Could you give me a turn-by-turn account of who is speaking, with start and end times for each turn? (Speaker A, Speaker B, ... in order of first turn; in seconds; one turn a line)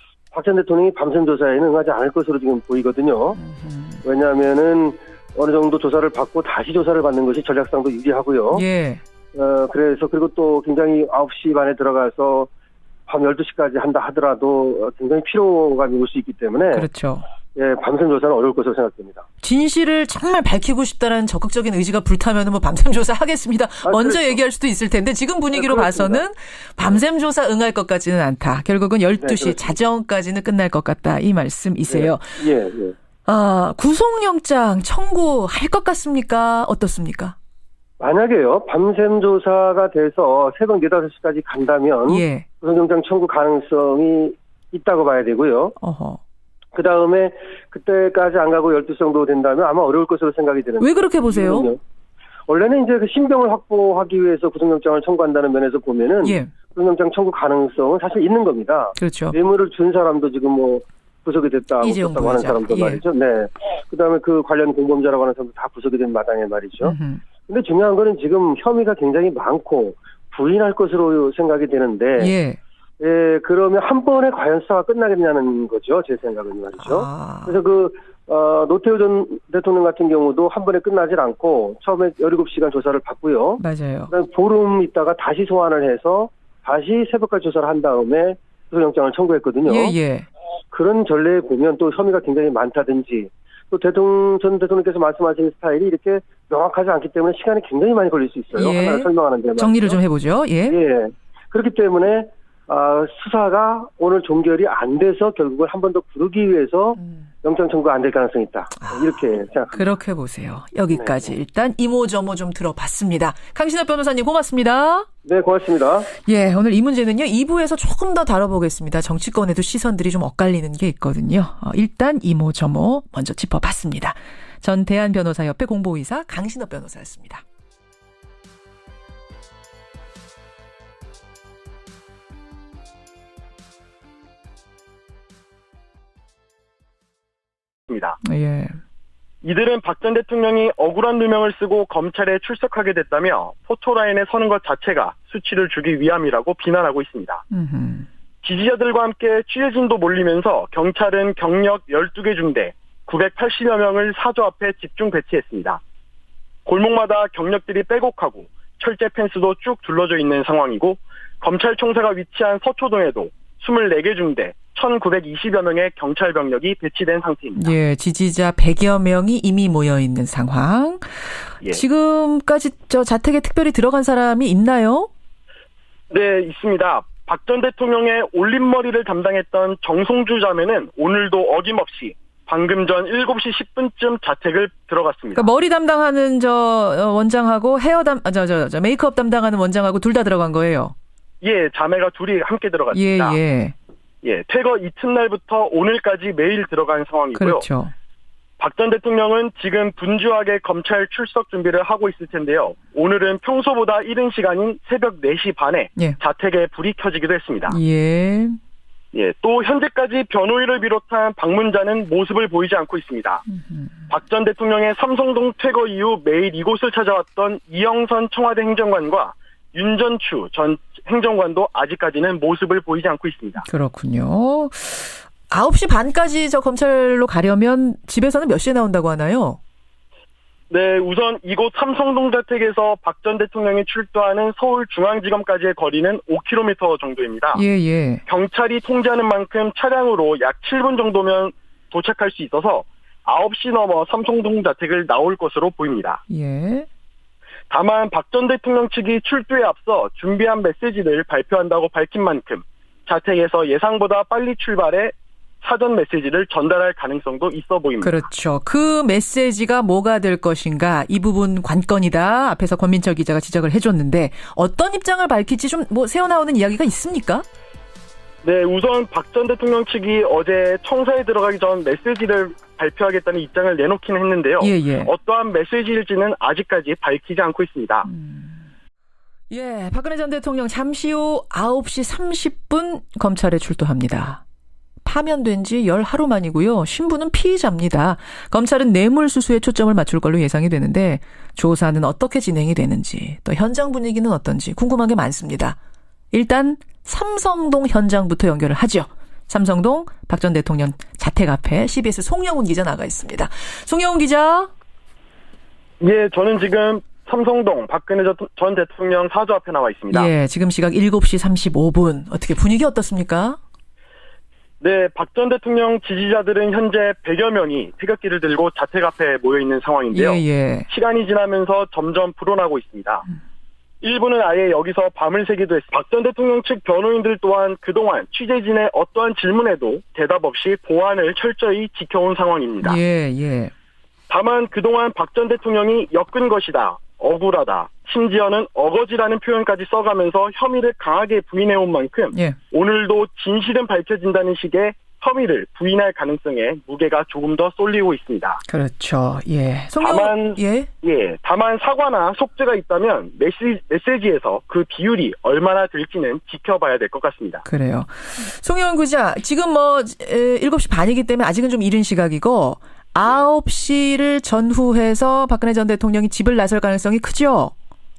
Speaker A: 0.3-3.4
Speaker B: 3.4-4.0
Speaker A: 4.0-8.6
Speaker B: 8.5-9.0
Speaker A: 9.3-12.5
Speaker A: 13.1-16.9
Speaker B: 16.7-17.3
Speaker A: 17.6-19.2
Speaker B: 19.4-32.4
Speaker A: 23.8-24.4
Speaker A: 25.5-26.2
Speaker A: 29.2-29.8
Speaker A: 31.9-33.0
Speaker B: 33.3-37.4
Speaker A: 38.0-45.8
Speaker B: 42.1-42.5
Speaker B: 45.8-46.2
Speaker A: 46.7-51.8
Speaker B: 50.8-51.7
Speaker A: 52.5-67.0
Speaker B: 56.2-56.5
Speaker B: 59.0-59.4
Speaker B: 61.8-63.0
Speaker B: 66.8-67.2
Speaker A: 67.5-72.3
Speaker B: 72.2-72.6
Speaker A: 73.0-90.0
Speaker B: 76.9-77.6
Speaker B: 83.6-84.1
Speaker B: 89.7-90.3
Speaker A: 90.7-100.0
Speaker B: 98.5-100.8
Speaker A: 100.7-109.8
Speaker B: 109.7-115.1
Speaker A: 110.9-111.3
Speaker A: 115.2-116.1
Speaker B: 116.2-127.4
Speaker C: 137.9-138.2
Speaker B: 138.2-138.8
Speaker C: 139.4-147.4
Speaker B: 147.5-148.1
Speaker C: 148.4-155.8
Speaker C: 156.7-167.7
Speaker B: 167.6-175.1
Speaker C: 176.1-185.5
Speaker B: 185.3-190.9
Speaker C: 191.4-193.4
Speaker B: 192.9-193.8
Speaker C: 194.2-197.6
Speaker B: 197.3-197.9
Speaker C: 198.6-207.8
Speaker B: 207.7-208.6
Speaker C: 209.1-213.4
Speaker B: 213.6-213.9
Speaker C: 214.1-223.7
Speaker B: 223.6-229.6
Speaker C: 230.7-237.6
Speaker B: 237.5-238.2
Speaker C: 238.3-246.2
Speaker B: 246.3-246.9
Speaker C: 247.7-258.2
Speaker B: 258.0-267.4
Speaker C: 268.4-278.1
Speaker B: 274.6-275.1
Speaker B: 278.1-278.7
Speaker B: 279.5-284.4
Speaker B: 285.0-295.8
Speaker B: 296.3-304.7
Speaker C: 306.0-310.3
Speaker B: 310.1-313.6
Speaker C: 314.8-323.2
Speaker B: 320.1-320.9
Speaker C: 324.0-333.0
Speaker B: 332.8-333.7
Speaker C: 334.3-348.6
Speaker B: 348.7-350.9
Speaker C: 350.0-357.6
Speaker B: 357.6-367.7